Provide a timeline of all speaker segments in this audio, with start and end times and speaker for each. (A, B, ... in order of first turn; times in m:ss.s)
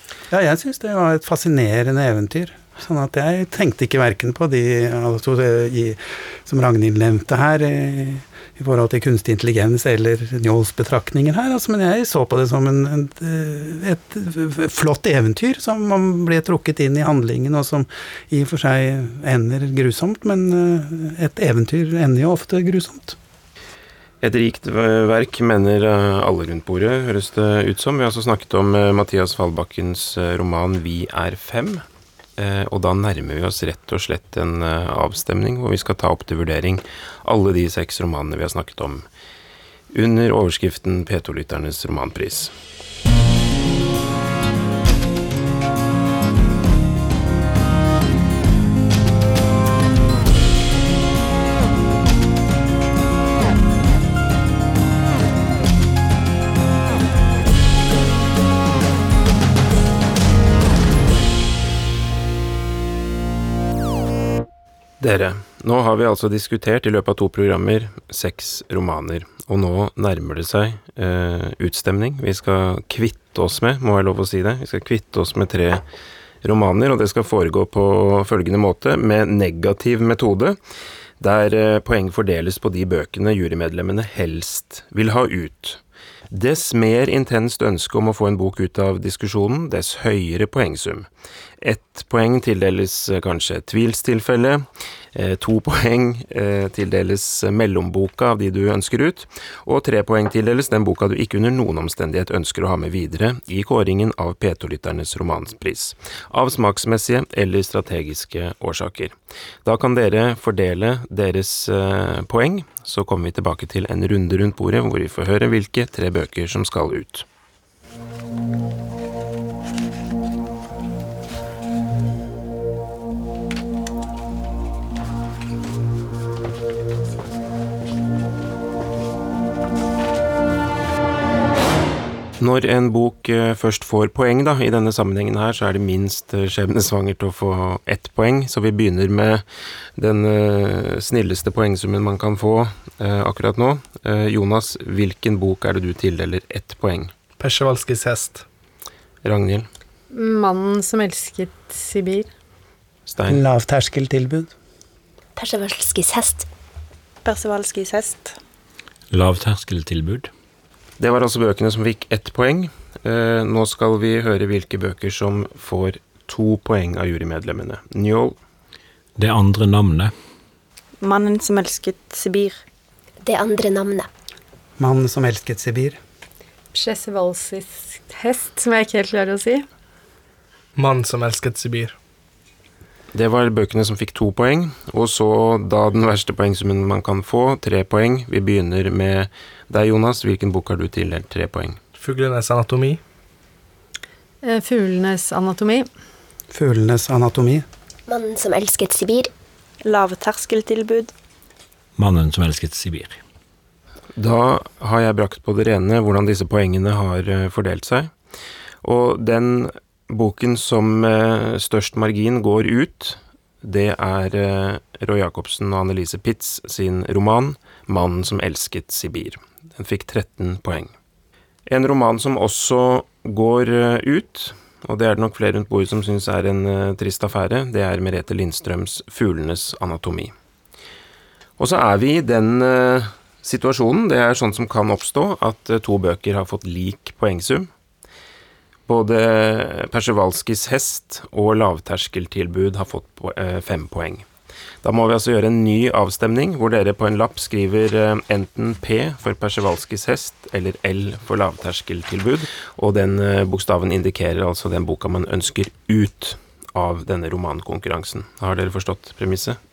0:00.3-0:23.2 A
0:24.2-0:31.8 B
0:32.4-0:39.0 B
0:39.9-0:42.5 B
1:05.0-1:15.8 B
1:16.4-1:20.6 B
1:21.2-1:31.1 B
1:31.6-1:57.3 B
2:12.4-2:19.4 B
2:20.0-2:27.1 B
2:27.4-2:28.4 C
2:29.2-2:29.7 B
2:30.1-2:32.3 D
2:33.1-2:33.4 B
2:33.3-2:34.5 A
2:35.4-2:36.5 E
2:37.2-2:38.4 F
2:39.1-2:40.3 G
2:41.0-2:48.4 B
2:49.2-2:50.1 G
2:51.0-2:52.6 F
2:53.2-2:54.1 E
2:54.8-2:56.0 A
2:56.7-2:59.6 D
3:00.8-3:02.0 C
3:03.1-3:11.8 B
3:12.0-3:13.0 C
3:14.4-3:15.9 D
3:16.5-3:17.7 A
3:18.1-3:19.3 E
3:19.8-3:21.1 F
3:22.0-3:23.2 G
3:24.2-3:28.1 B
3:28.8-3:40.9 B
3:41.7-3:50.3 B
3:51.6-3:57.7 B
3:58.9-4:04.3 B
4:04.8-4:19.6 B